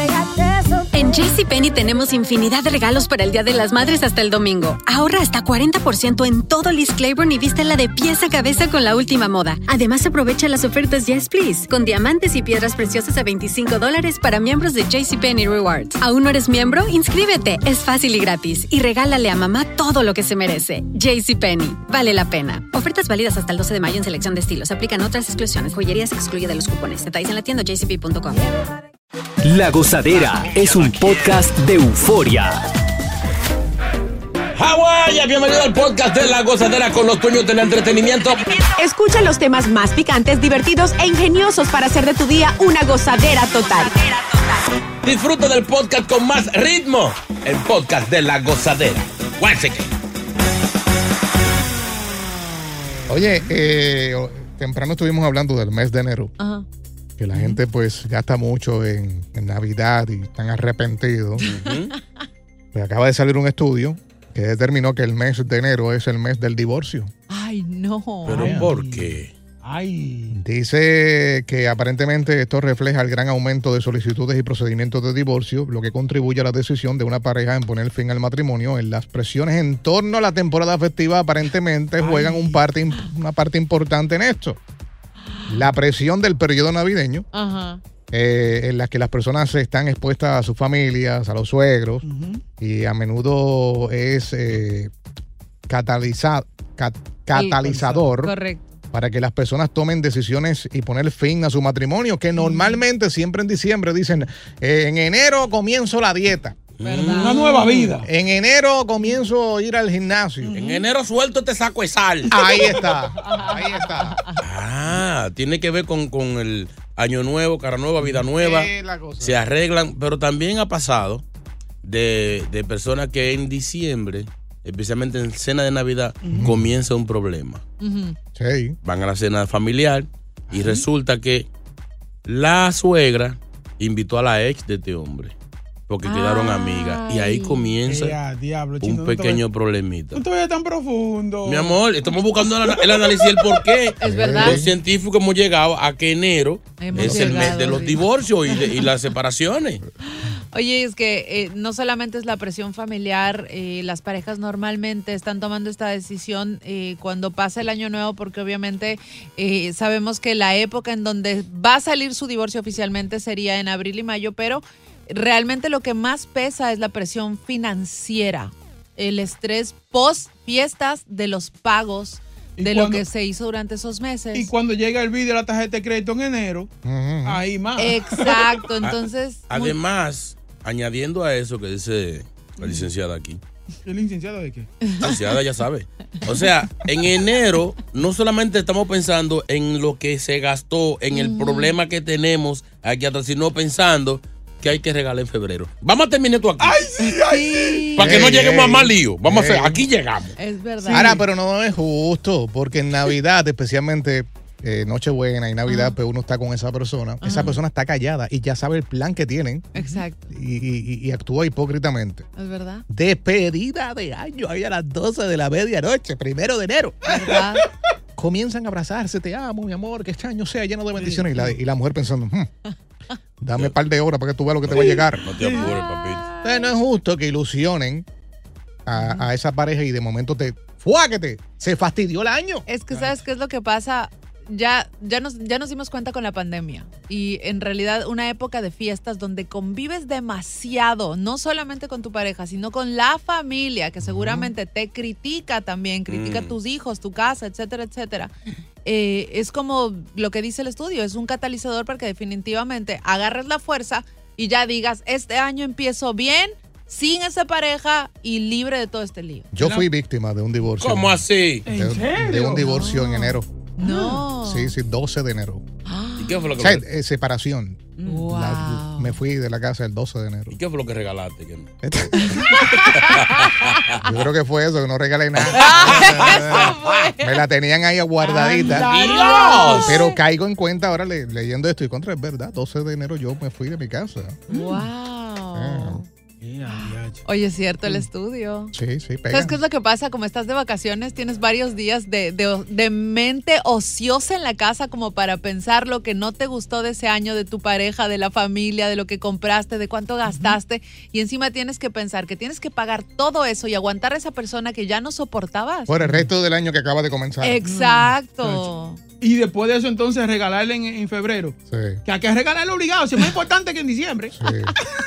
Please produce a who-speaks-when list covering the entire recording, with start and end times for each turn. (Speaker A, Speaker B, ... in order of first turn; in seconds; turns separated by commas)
Speaker A: 0.9-28.4, Speaker B: 29.4-32.6, Speaker C: 34.5-38.6, Speaker D: 38.7-43.9, Speaker C: 45.0-49.9, Speaker E: 53.1-56.3, Speaker F: 56.4-56.6, Speaker E: 57.2-61.4, Speaker G: 57.3-57.6, Speaker C: 61.4-61.9, Speaker F: 61.5-61.9, Speaker E: 62.7-67.1, Speaker F: 67.3-68.5, Speaker G: 68.2-70.4, Speaker C: 68.2-69.3, Speaker E: 68.3-68.7, Speaker E: 70.3-84.6, Speaker G: 82.0-82.6, Speaker E: 85.5-87.2, Speaker F: 87.3-87.8, Speaker E: 88.1-92.1, Speaker G: 92.0-92.4, Speaker E: 92.6-94.9, Speaker E: 95.7-98.3, Speaker F: 97.3-98.8, Speaker G: 97.7-98.1, Speaker E: 98.9-106.6, Speaker C: 106.8-107.4, Speaker F: 106.8-108.0, Speaker G: 107.0-108.1, Speaker E: 108.0-110.6, Speaker G: 110.4-110.9, Speaker C: 110.5-112.4, Speaker E: 112.3-114.2, Speaker G: 112.5-112.9, Speaker F: 113.2-114.4, Speaker C: 114.4-121.2, Speaker E: 118.4-119.4, Speaker C: 121.8-127.6, Speaker G: 126.2-126.5, Speaker E: 126.3-126.6, Speaker F: 127.8-128.2, Speaker E: 128.3-128.8, Speaker C: 128.8-131.5, Speaker G: 130.5-130.8, Speaker C: 132.2-135.3, Speaker C: 135.9-138.2, Speaker F: 136.0-137.7, Speaker G: 137.8-139.4, Speaker C: 138.8-140.2, Speaker G: 140.1-141.8, Speaker C: 141.4-149.8, Speaker G: 142.4-143.7, Speaker F: 144.0-144.6, Speaker E: 144.0-144.7, Speaker F: 146.8-148.0, Speaker E: 147.0-147.5, Speaker F: 150.1-174.5, Speaker G: 172.6-173.0, Speaker G: 174.3-176.7, Speaker E: 176.8-177.4, Speaker G: 177.2-178.7, Speaker F: 177.8-179.8, Speaker C: 178.8-183.4, Speaker G: 183.8-184.7, Speaker F: 184.8-185.2, Speaker C: 185.0-196.8, Speaker F: 191.1-191.7, Speaker G: 196.6-198.2, Speaker F: 197.0-198.1, Speaker C: 197.9-200.4, Speaker E: 198.0-199.8, Speaker F: 200.4-201.2, Speaker E: 200.9-209.7, Speaker G: 200.9-201.2, Speaker F: 205.7-205.9, Speaker F: 207.2-207.6, Speaker F: 209.7-210.3, Speaker G: 209.8-210.0, Speaker E: 210.3-212.3, Speaker F: 212.3-212.8, Speaker E: 212.9-217.1, Speaker F: 217.0-217.6, Speaker G: 217.1-217.6, Speaker E: 218.2-222.5, Speaker G: 220.9-221.6, Speaker E: 223.4-225.2, Speaker C: 224.6-226.2, Speaker G: 224.7-225.7, Speaker F: 225.6-226.7, Speaker E: 226.4-228.1, Speaker E: 228.8-232.6, Speaker F: 232.7-248.3, Speaker G: 232.9-233.2, Speaker E: 244.1-244.5, Speaker C: 246.1-246.6, Speaker F: 248.8-259.5, Speaker E: 259.5-263.5, Speaker G: 259.6-259.9, Speaker C: 260.8-261.7, Speaker G: 261.6-262.7, Speaker F: 262.5-264.7, Speaker G: 263.9-264.2, Speaker E: 264.2-265.6, Speaker F: 265.9-266.5, Speaker C: 266.2-266.8, Speaker E: 266.6-270.6, Speaker G: 268.0-268.3, Speaker F: 268.1-269.1, Speaker C: 270.5-271.7, Speaker E: 271.8-272.8, Speaker F: 272.2-273.3, Speaker C: 272.9-274.1, Speaker E: 274.0-278.9, Speaker C: 275.3-276.7, Speaker F: 275.5-277.4, Speaker F: 278.2-280.2, Speaker G: 278.6-279.8, Speaker C: 278.7-279.9, Speaker E: 279.8-284.4, Speaker G: 284.5-284.9, Speaker F: 284.5-286.0, Speaker E: 285.5-286.0, Speaker G: 286.4-287.2, Speaker F: 286.7-288.7, Speaker E: 288.7-289.6, Speaker F: 289.3-305.9, Speaker G: 300.3-300.6, Speaker E: 305.9-307.6, Speaker G: 306.0-306.3, Speaker F: 307.4-309.0, Speaker G: 307.6-314.3, Speaker E: 311.7-312.0, Speaker E: 314.3-314.7